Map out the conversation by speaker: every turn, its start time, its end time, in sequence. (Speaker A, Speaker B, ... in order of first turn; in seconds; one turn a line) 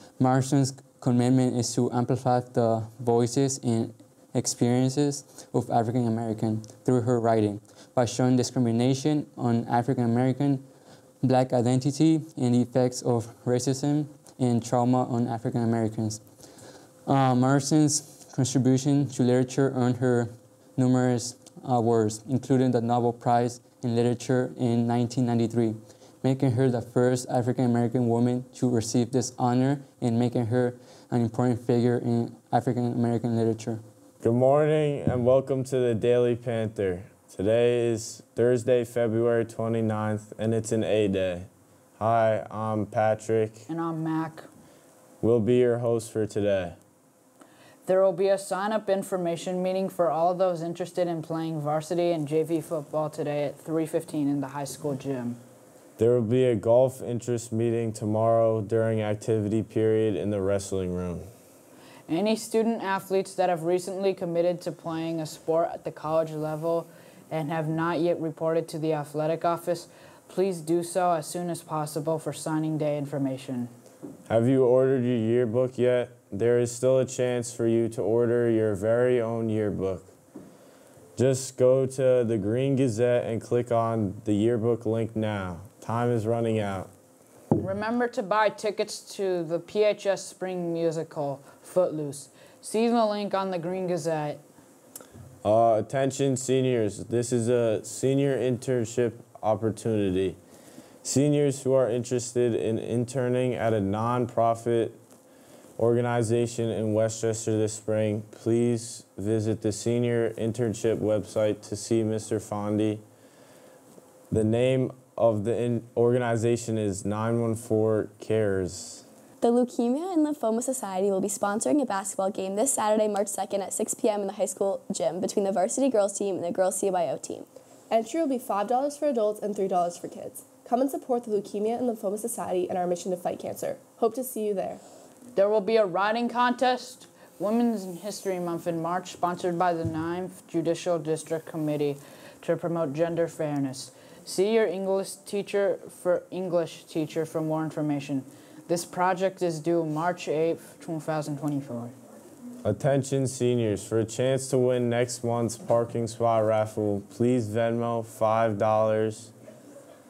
Speaker A: 0.2-10.6
Speaker A: 11.2-16.2
Speaker A: 17.0-33.8
Speaker B: 34.2-43.6
Speaker C: 43.7-44.5
Speaker B: 45.2-46.8
Speaker C: 47.9-55.4
Speaker B: 56.0-61.2
Speaker C: 62.1-73.7
Speaker B: 74.3-80.1
Speaker B: 81.2-86.9
Speaker C: 87.6-94.4
Speaker B: 95.4-100.4
Speaker B: 101.0-105.0
Speaker B: 105.8-113.0
Speaker B: 114.3-119.0
Speaker D: 119.4-127.5
Speaker E: 127.9-134.8
Speaker C: 135.3-151.9
Speaker B: 152.6-159.3